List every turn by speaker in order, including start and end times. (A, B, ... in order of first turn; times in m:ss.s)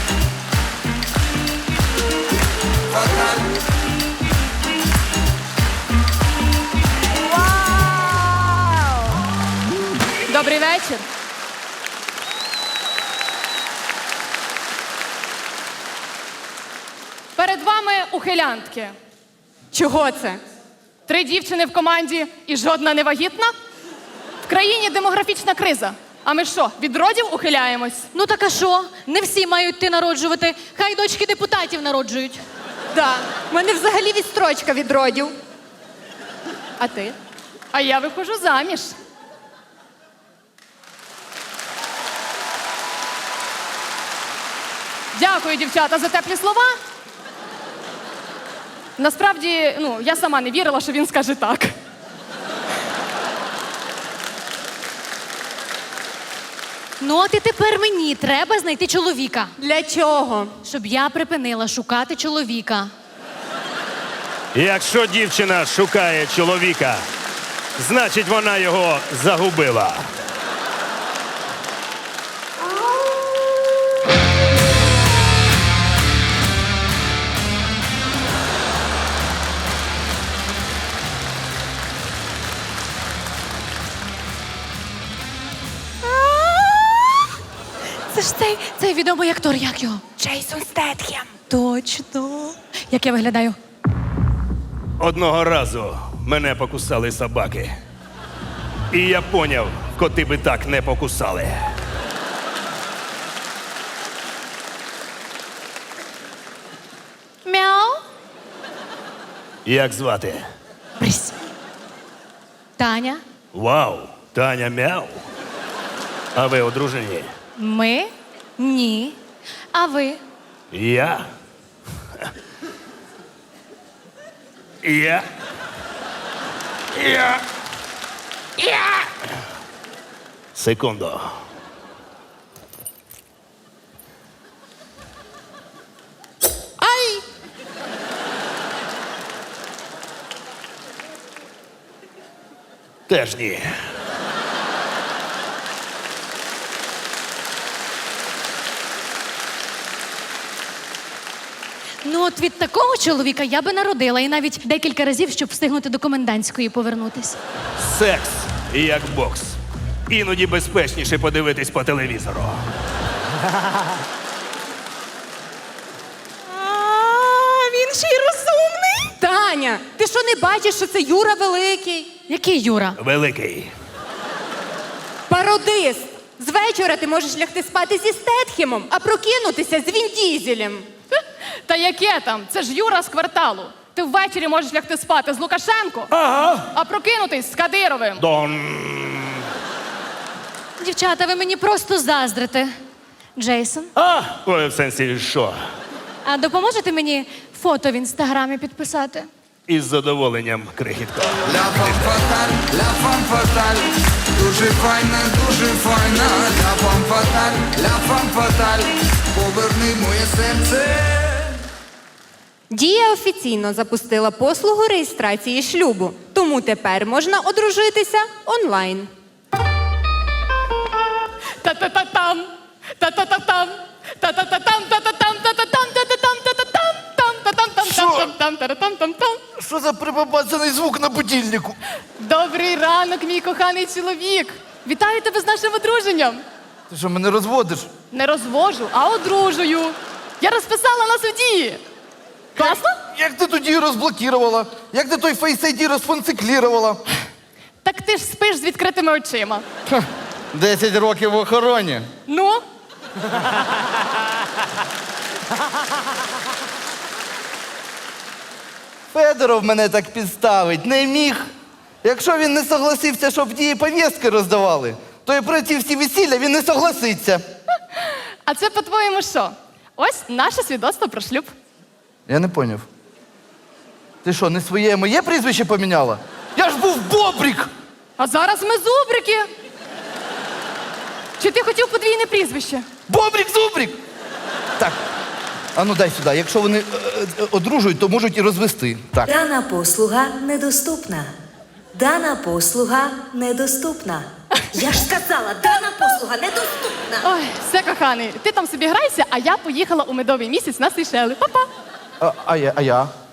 0:02.9-0:03.3 A
0:10.3-0:11.0 B
0:17.4-0:18.9 B
0:19.7-0:20.4 C
0:21.1-0:23.5 B
0:24.4-0:28.1 B
0:28.1-0:32.4 D
0:32.9-0:35.3 C
0:36.8-0:37.1 C
0:37.7-0:38.9 B
0:45.1-0:46.7 B
0:49.0-0:51.7 B
0:57.0-0:59.5 D
0:59.6-1:00.6 C
1:00.6-1:02.9 D
1:04.5-1:07.0 E
1:07.8-1:10.1 E
1:26.2-1:26.9 D
1:28.1-1:30.0 D
1:30.2-1:31.3 C
1:31.5-1:33.6 D
1:35.0-1:37.7 E
1:38.9-1:41.6 E
1:47.4-1:48.0 D
1:49.6-1:50.4 E
1:51.0-1:51.4 D
1:52.8-1:53.2 D
1:53.5-1:55.1 E
1:56.4-1:57.3 E
1:57.6-1:59.2 D
1:59.7-2:00.2 D
2:00.7-2:01.3 E
2:04.8-2:05.2 E
2:06.9-2:07.4 E
2:08.6-2:09.0 E
2:10.6-2:11.4 E
2:16.8-2:17.2 C
2:23.1-2:23.7 E
2:32.0-2:37.4 D
2:37.8-2:39.6 E
2:40.1-2:42.6 E
2:46.6-2:52.1 C
2:52.3-2:53.0 D
2:53.0-2:53.7 E
2:55.3-3:00.9 C
3:01.7-3:06.1 B
3:06.1-3:06.7 E
3:06.7-3:08.2 B
3:08.2-3:09.5 E
3:10.8-3:12.7 D
3:13.4-3:13.9 D
3:14.0-3:15.6 E
3:16.2-3:19.3 D
3:19.7-3:22.3 E
3:22.4-3:23.8 A
3:24.4-3:31.3 A
3:32.7-3:39.1 C
3:41.6-3:42.5 B
3:43.0-3:49.4 B
3:47.9-3:48.3 F
3:49.6-3:51.8 F
3:52.2-3:56.4 B
3:56.9-3:57.9 F
3:58.1-4:01.8 B
4:02.6-4:03.0 B
4:02.6-4:07.0 F
4:07.8-4:09.6 B
4:09.9-4:12.0 F
4:12.3-4:12.6 B
4:19.1-4:21.5 F
4:22.0-4:27.4 F
4:28.5-4:31.5 B
4:32.3-4:32.8 F
4:34.2-4:37.7 F
4:38.2-4:39.5 B
4:41.4-4:42.8 B
4:43.1-4:44.0 F
4:45.8-4:49.3 F
4:49.3-4:51.3 G
4:51.9-4:57.2 G
4:57.2-5:01.7 B
5:02.2-5:03.1 F